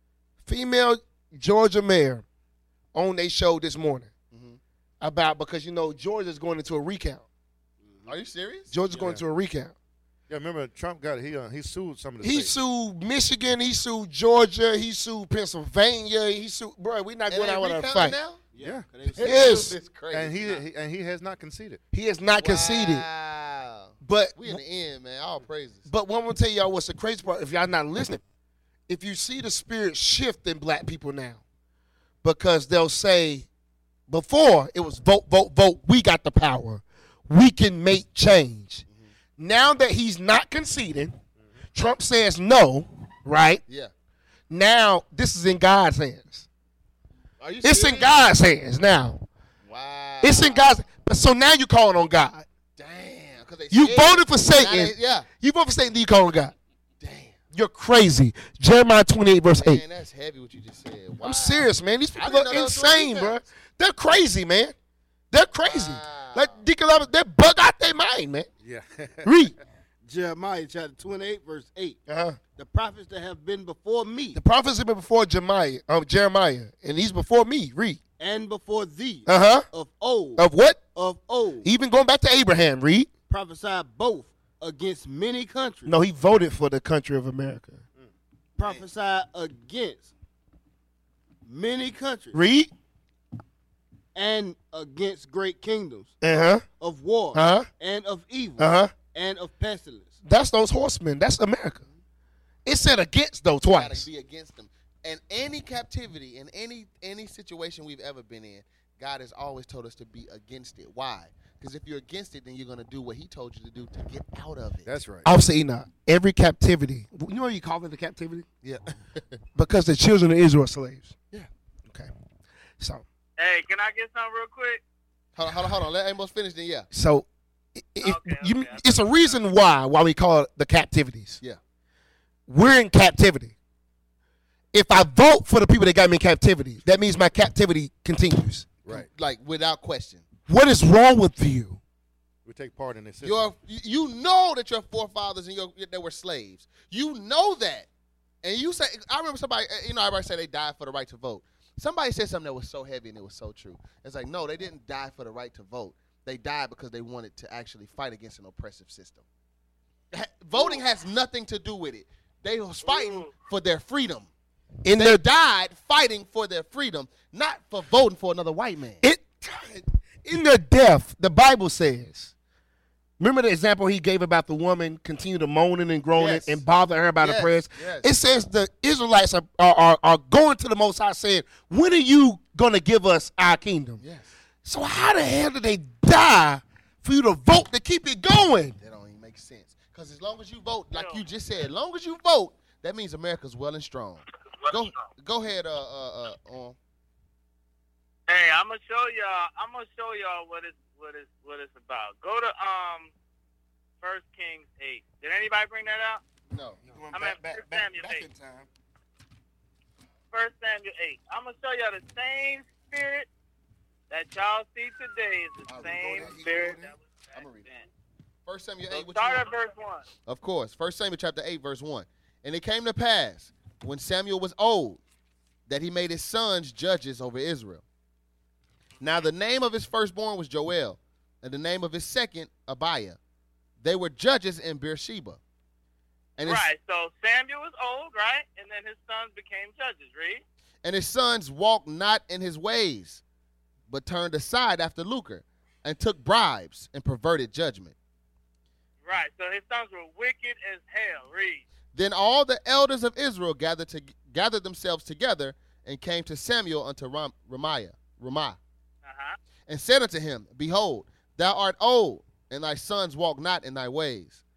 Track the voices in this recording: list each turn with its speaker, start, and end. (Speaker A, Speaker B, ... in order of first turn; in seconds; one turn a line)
Speaker A: 0.4-2.2
Speaker A: 2.9-4.1
Speaker B: 4.3-4.6
Speaker A: 5.0-7.2
Speaker C: 7.8-8.1
Speaker B: 8.1-8.7
Speaker A: 8.7-9.7
Speaker C: 8.9-9.2
Speaker D: 10.3-12.5
Speaker A: 12.2-18.2
Speaker B: 17.3-18.4
Speaker C: 18.5-19.7
Speaker D: 18.6-18.9
Speaker B: 19.1-20.6
Speaker A: 19.2-19.8
Speaker D: 20.1-21.8
Speaker A: 21.9-23.1
Speaker B: 22.4-25.9
Speaker A: 24.0-24.6
Speaker A: 25.9-28.2
Speaker A: 28.9-31.4
Speaker A: 32.2-33.5
Speaker A: 34.1-38.8
Speaker A: 39.4-41.2
Speaker A: 41.7-43.6
Speaker B: 43.7-43.9
Speaker A: 44.5-46.5
Speaker B: 47.4-48.2
Speaker A: 47.6-49.2
Speaker B: 49.6-50.7
Speaker A: 50.2-52.5
Speaker B: 52.8-55.3
Speaker A: 53.7-56.5
Speaker B: 57.0-57.4
Speaker A: 57.5-59.8
Speaker B: 59.5-63.4
Speaker A: 61.2-64.7
Speaker A: 65.3-68.5
Speaker B: 65.6-66.7
Speaker D: 68.6-69.3
Speaker A: 69.2-69.5
Speaker C: 70.0-72.0
Speaker A: 72.1-72.4
Speaker C: 72.5-74.4
Speaker A: 74.3-78.0
Speaker C: 78.2-81.7
Speaker A: 79.2-79.7
Speaker A: 80.4-80.8
Speaker A: 81.6-83.1
Speaker C: 83.3-86.0
Speaker A: 85.8-87.8
Speaker C: 88.6-90.1
Speaker C: 91.5-92.4
Speaker A: 92.3-92.7
Speaker C: 94.1-96.1
Speaker A: 96.2-96.6
Speaker C: 96.8-100.2
Speaker A: 97.3-97.7
Speaker A: 98.6-98.9
Speaker A: 100.2-101.8
Speaker A: 102.6-104.1
Speaker B: 103.7-114.9
Speaker D: 114.8-115.3
Speaker A: 115.2-118.5
Speaker B: 118.6-119.3
Speaker A: 119.5-121.2
Speaker A: 122.8-123.0
Speaker E: 123.4-124.8
Speaker B: 125.3-126.9
Speaker A: 126.9-131.4
Speaker E: 128.0-129.3
Speaker A: 132.5-133.5
Speaker A: 134.7-138.8
Speaker B: 138.8-140.2
Speaker A: 140.5-141.8
Speaker D: 142.4-143.5
Speaker B: 143.2-147.9
Speaker B: 148.4-159.2
Speaker B: 160.1-164.3
Speaker E: 160.5-160.8
Speaker E: 162.8-163.3
Speaker A: 164.8-165.2
Speaker B: 164.9-169.0
Speaker A: 169.0-172.3
Speaker A: 173.2-184.0
Speaker B: 176.2-176.6
Speaker B: 177.2-178.1
Speaker B: 184.0-184.3
Speaker A: 184.6-188.8
Speaker B: 188.8-196.8
Speaker E: 190.9-191.2
Speaker E: 198.3-203.1
Speaker E: 204.0-206.2
Speaker B: 206.5-206.8
Speaker A: 206.8-208.7
Speaker E: 207.1-208.3
Speaker E: 210.3-213.3
Speaker E: 214.1-217.9
Speaker B: 215.7-216.4
Speaker A: 215.7-216.9
Speaker B: 217.3-217.7
Speaker B: 218.4-219.5
Speaker E: 218.9-220.1
Speaker B: 220.2-225.0
Speaker B: 225.7-227.8
Speaker B: 229.0-233.2
Speaker B: 233.8-235.4
Speaker B: 236.4-236.7
Speaker E: 236.4-240.4
Speaker B: 240.8-243.2
Speaker B: 243.9-247.9
Speaker E: 249.0-251.6
Speaker B: 251.9-258.6
Speaker E: 259.0-259.4
Speaker B: 259.7-264.4